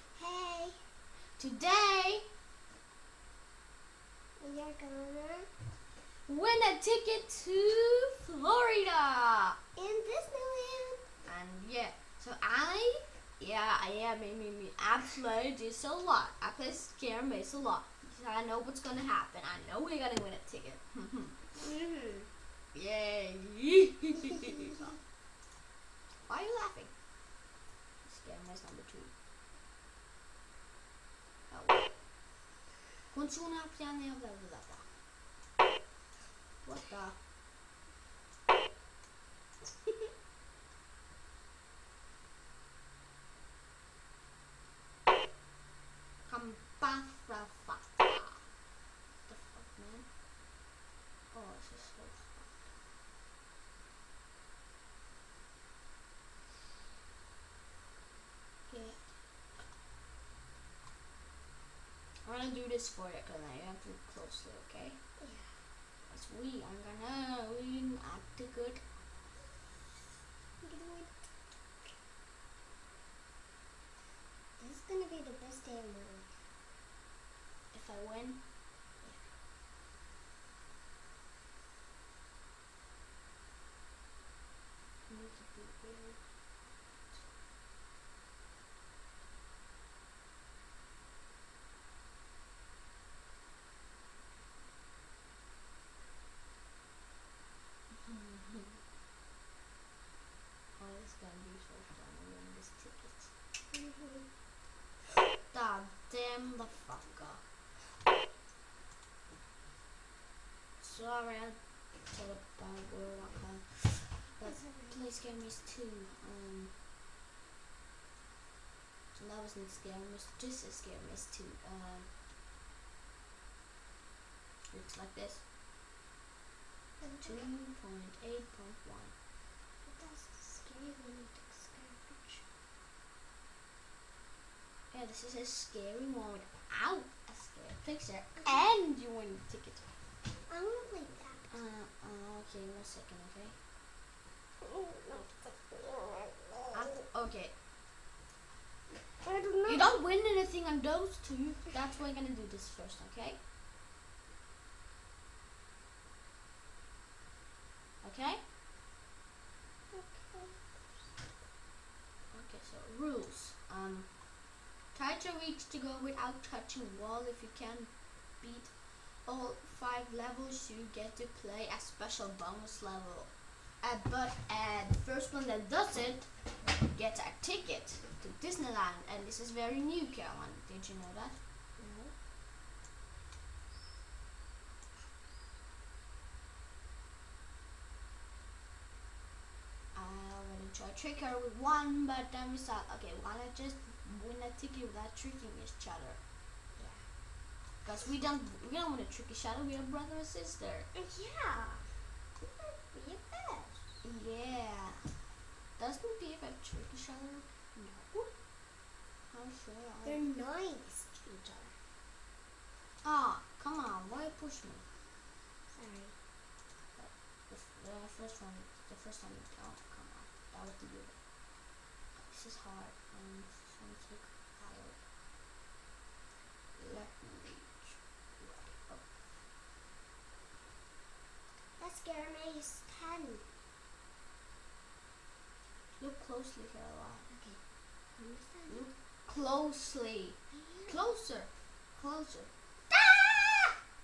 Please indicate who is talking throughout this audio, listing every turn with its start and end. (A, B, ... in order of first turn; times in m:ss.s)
0:00.1-0:00.8 A
0:01.4-0:02.2 B
0:04.4-0:05.5 A
0:06.3-0:09.6 B
0:09.8-0:11.0 A
0:11.2-0:21.5 B
0:21.6-0:22.3 A
0:22.7-0:25.0 B
0:26.2-0:26.9 B
0:28.0-0:29.1 B
0:31.5-0:32.0 B
0:33.1-0:34.9 B
0:36.6-0:37.2 B
0:46.2-0:48.5 B
0:49.2-0:50.1 B
0:51.3-0:52.7 B
0:58.7-0:59.0 B
1:02.2-1:05.1 B
1:05.2-1:05.6 A
1:06.0-1:08.8 B
1:10.6-1:11.9 A
1:14.6-1:16.4 A
1:17.7-1:18.4 B
1:19.0-1:19.2 A
1:25.1-1:26.3 B
1:38.0-1:38.8 B
1:40.7-1:43.3 B
1:43.7-1:44.3 A
1:45.5-1:47.5 B
1:50.8-1:56.7 B
1:54.4-1:55.1 A
1:59.1-2:02.1 B
2:04.7-2:05.4 B
2:07.0-2:07.5 A
2:07.2-2:09.2 B
2:09.8-2:12.4 A
2:14.9-2:19.9 B
2:18.4-2:18.6 A
2:20.5-2:21.5 A
2:21.5-2:23.6 B
2:24.6-2:27.0 A
2:26.7-2:27.6 B
2:29.2-2:29.9 A
2:29.6-2:33.4 B
2:38.0-2:38.4 B
2:39.9-2:40.8 A
2:42.3-3:01.4 B
3:01.8-3:02.2 A
3:09.9-3:16.2 B
3:16.7-3:17.1 A
3:17.8-3:20.9 B
3:20.9-3:23.9 A
3:24.0-3:25.1 B
3:25.8-3:28.3 B
3:29.3-3:30.3 B
3:30.0-3:31.8 A
3:33.0-3:34.8 B
3:35.7-3:36.2 A
3:36.9-3:45.0 B
3:46.7-3:49.1 B
3:51.8-3:53.5 A
3:56.0-3:57.3 B
3:57.3-3:58.9 A
3:58.7-4:02.5 B
4:00.5-4:01.0 A